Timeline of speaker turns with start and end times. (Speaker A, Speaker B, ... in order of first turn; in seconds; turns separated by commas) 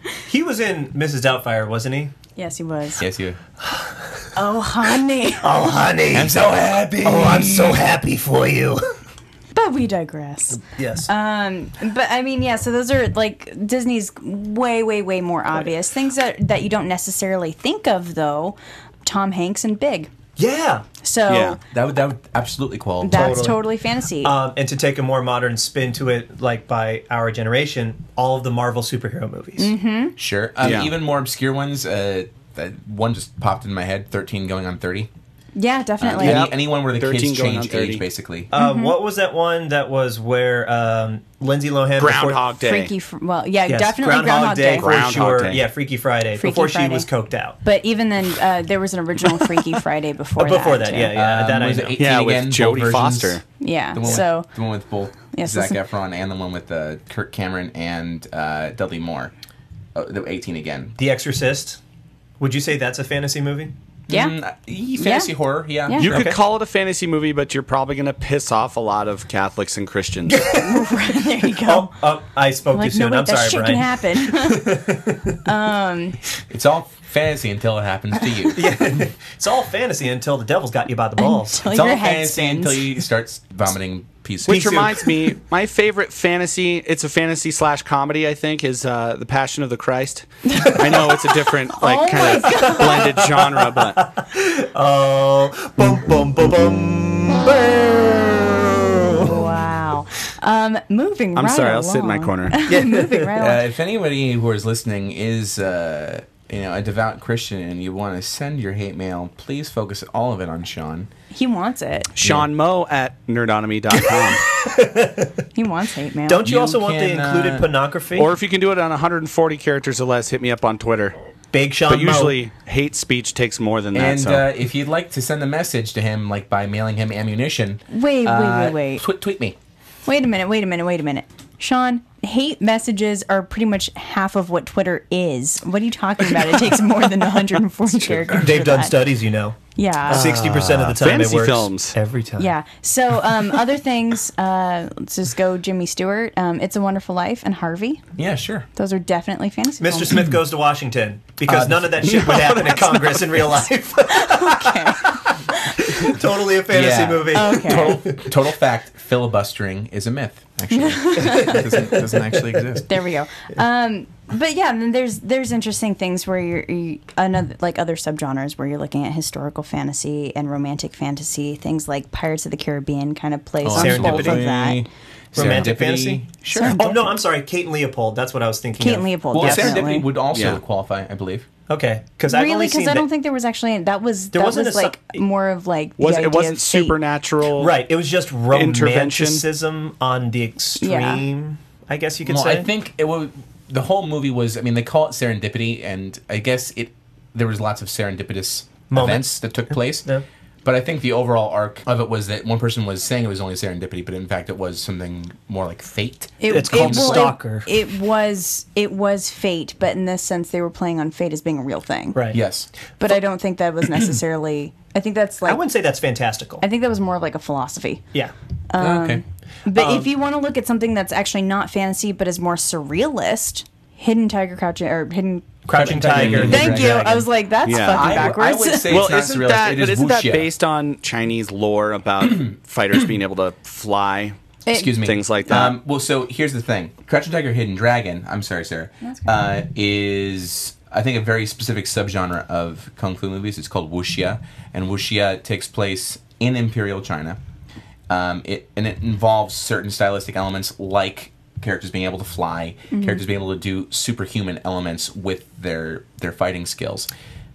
Speaker A: 0.3-2.1, Speaker B: 2.4-3.0, Speaker C: 3.0-3.4, Speaker A: 3.6-3.9, Speaker B: 4.3-5.5, Speaker A: 5.4-8.8, Speaker C: 6.1-7.8, Speaker B: 9.5-20.1, Speaker A: 10.6-11.1, Speaker A: 20.4-20.8, Speaker B: 21.0-21.6, Speaker D: 21.3-21.6, Speaker C: 21.7-23.5, Speaker B: 23.0-24.3, Speaker A: 23.1-23.6, Speaker A: 24.2-29.7, Speaker B: 29.6-30.1, Speaker C: 30.2-35.1, Speaker D: 30.6-30.9, Speaker B: 35.5-36.5, Speaker C: 36.0-38.5, Speaker D: 36.2-38.0, Speaker A: 38.5-42.5, Speaker B: 38.5-39.0, Speaker D: 42.0-42.9, Speaker B: 42.6-44.9, Speaker A: 43.7-47.6, Speaker D: 44.8-45.6, Speaker B: 46.4-47.1, Speaker B: 47.6-51.1, Speaker A: 50.4-52.0, Speaker C: 51.1-53.4, Speaker D: 52.0-53.4, Speaker B: 53.6-54.5, Speaker C: 53.9-59.3, Speaker B: 55.3-55.8, Speaker C: 59.9-61.0, Speaker A: 61.0-61.8, Speaker A: 62.4-63.7, Speaker C: 64.1-66.3, Speaker B: 64.1-64.3, Speaker B: 65.0-65.3, Speaker B: 65.8-66.1, Speaker D: 66.0-70.4, Speaker A: 66.1-66.4, Speaker A: 70.3-75.4, Speaker B: 70.5-72.0, Speaker B: 72.7-74.8, Speaker B: 75.4-76.2, Speaker C: 76.5-78.8, Speaker A: 78.5-81.7, Speaker B: 81.2-82.9, Speaker C: 81.7-84.9, Speaker A: 84.5-85.2, Speaker D: 84.5-94.1, Speaker B: 90.5-91.1, Speaker B: 91.7-93.2, Speaker A: 92.6-99.5, Speaker B: 99.1-103.6, Speaker D: 101.3-102.6, Speaker A: 102.7-103.3, Speaker C: 103.3-111.1, Speaker B: 111.3-112.1, Speaker D: 112.2-114.4, Speaker C: 112.2-112.5, Speaker A: 114.0-115.4, Speaker B: 115.5-116.5, Speaker A: 116.3-118.3, Speaker C: 116.4-117.7, Speaker D: 118.1-121.2, Speaker A: 121.5-122.4, Speaker D: 121.9-124.5, Speaker C: 123.9-129.6, Speaker B: 127.9-129.0, Speaker B: 130.1-139.0, Speaker C: 138.0-138.4, Speaker A: 138.3-142.5, Speaker B: 139.7-140.4, Speaker D: 140.1-141.9, Speaker B: 142.4-148.0, Speaker C: 148.2-148.7, Speaker B: 148.7-150.3, Speaker A: 149.8-158.3, Speaker D: 152.0-153.4, Speaker B: 154.1-156.1, Speaker C: 156.7-162.9, Speaker B: 157.3-158.0, Speaker B: 160.7-161.7, Speaker A: 161.2-162.6, Speaker B: 162.8-174.9, Speaker C: 173.6-176.9, Speaker A: 173.7-174.5, Speaker A: 175.3-179.8, Speaker B: 176.5-177.1, Speaker B: 178.8-180.1, Speaker C: 179.3-181.5, Speaker D: 180.3-180.6, Speaker A: 181.7-183.1, Speaker B: 182.3-187.0, Speaker A: 184.3-185.2, Speaker D: 186.0-187.7, Speaker A: 187.5-192.7, Speaker D: 188.5-189.4, Speaker B: 190.8-191.2, Speaker C: 192.2-200.1, Speaker A: 198.9-200.2, Speaker C: 200.6-207.3, Speaker B: 206.4-212.3, Speaker A: 206.5-207.7, Speaker A: 212.1-212.4, Speaker C: 212.3-212.7, Speaker B: 213.0-215.6, Speaker A: 215.4-216.6, Speaker B: 216.6-218.0, Speaker B: 218.7-229.0, Speaker C: 218.8-219.2, Speaker A: 219.7-220.1, Speaker A: 225.7-227.1, Speaker C: 225.7-227.3, Speaker D: 226.2-226.6, Speaker D: 227.6-228.4, Speaker C: 227.8-230.5, Speaker D: 228.9-234.3, Speaker B: 234.7-235.0, Speaker C: 234.7-247.4, Speaker D: 235.0-235.8, Speaker B: 239.0-239.3, Speaker C: 248.1-257.1, Speaker B: 252.9-253.2